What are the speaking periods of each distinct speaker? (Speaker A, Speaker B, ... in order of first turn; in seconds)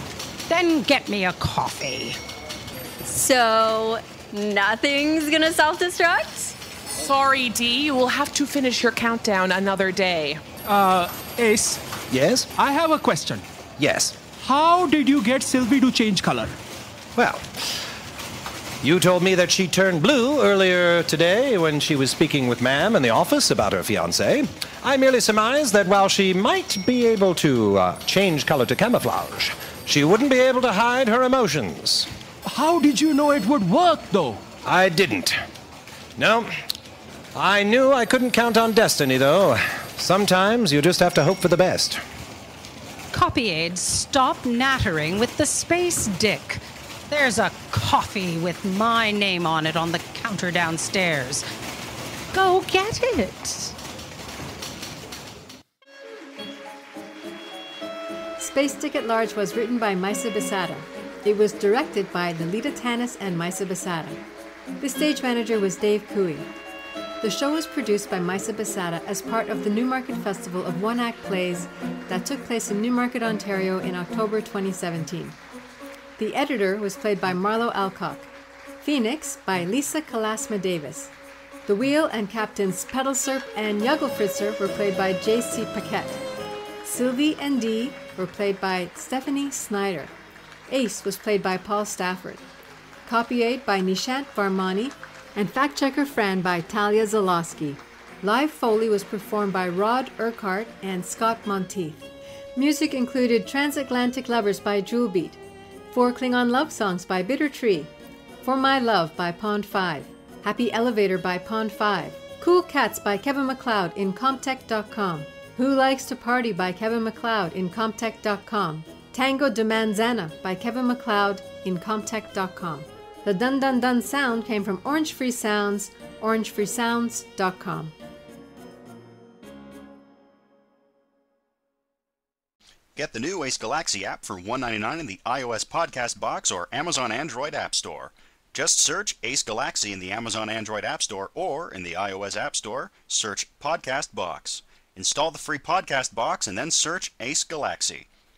Speaker A: 0.5-2.2, 43.1-51.4, 52.3-53.7
Speaker B: 3.0-6.5
Speaker C: 6.9-10.4
Speaker D: 10.6-11.8, 12.6-13.4, 14.4-16.6, 32.5-34.4
Speaker E: 12.1-12.5, 13.8-14.2, 17.1-17.9, 18.8-32.1, 34.6-35.4, 36.2-36.5, 37.3-42.0
Speaker F: 58.4-64.2, 64.8-66.5, 67.2-75.3, 76.2-78.3, 78.8-81.1, 81.7-86.2, 86.8-90.1, 90.7-92.4, 93.0-105.4, 105.9-107.9, 108.4-127.9
Speaker G: 132.9-148.1